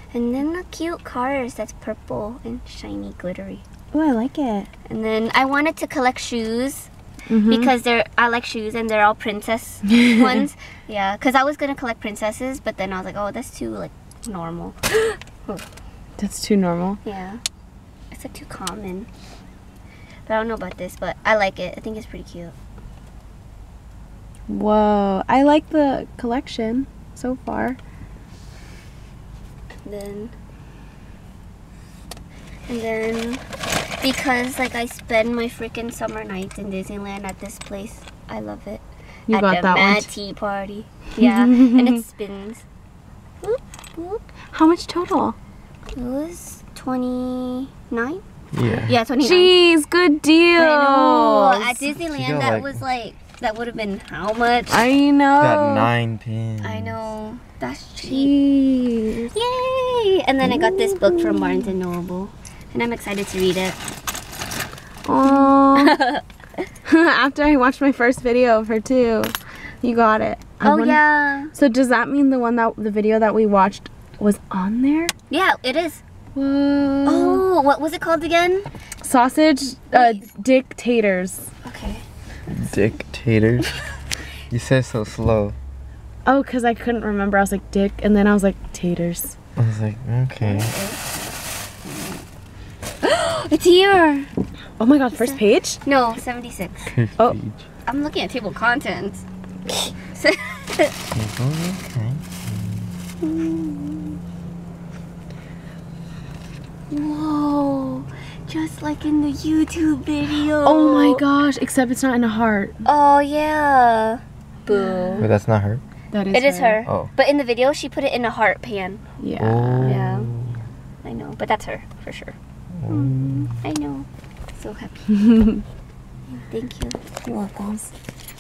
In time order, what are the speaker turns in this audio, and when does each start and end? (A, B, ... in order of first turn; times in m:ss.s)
0:00.1-0:03.6 A
0:03.9-0:04.7 B
0:04.9-0:06.9 A
0:07.3-0:07.7 B
0:07.5-0:15.6 A
0:16.2-0:17.0 B
0:17.0-0:17.4 A
0:18.1-0:19.1 A
0:20.3-0:22.6 A
0:24.5-0:27.8 B
0:29.8-0:30.3 A
0:32.7-0:33.4 A
0:34.0-0:42.6 A
0:39.3-0:40.1 B
0:41.2-0:42.0 B
0:43.4-0:44.2 A
0:44.5-0:45.4 B
0:45.9-0:49.6 A
0:48.5-0:49.0 C
0:49.2-0:51.9 B
0:50.6-0:54.8 A
0:52.0-0:52.8 C
0:54.7-0:55.9 B
0:55.4-0:57.0 C
0:56.6-0:58.4 A
0:58.0-0:59.3 B
0:59.3-1:03.8 A
1:00.4-1:01.7 B
1:05.1-1:06.0 B
1:05.2-1:06.6 A
1:06.9-1:11.0 B
1:10.6-1:11.5 A
1:11.5-1:15.1 B
1:15.3-1:16.0 A
1:16.4-1:17.4 B
1:17.0-1:18.7 A
1:19.0-1:21.5 B
1:19.9-1:20.3 A
1:21.6-1:22.0 A
1:22.5-1:23.7 C
1:24.5-1:25.6 C
1:26.3-1:29.4 B
1:29.6-1:30.8 C
1:30.4-1:32.2 A
1:33.0-1:34.3 A
1:34.8-1:35.8 B
1:35.1-1:36.9 A
1:36.9-1:37.6 C
1:37.9-1:40.9 A
1:41.1-1:42.9 C
1:43.2-1:44.2 A
1:46.9-1:51.2 A
1:50.6-1:52.8 B
1:52.8-1:55.3 A
1:54.7-1:55.3 B
1:55.2-1:55.8 C
1:56.1-1:56.8 B
1:56.3-1:59.0 A
1:56.8-1:57.1 C
1:59.2-2:00.1 B
1:59.4-2:00.6 C
1:59.8-2:00.3 A
2:01.0-2:02.4 A
2:02.7-2:03.6 C
2:02.9-2:05.2 A
2:06.5-2:07.0 A
2:07.3-2:07.9 B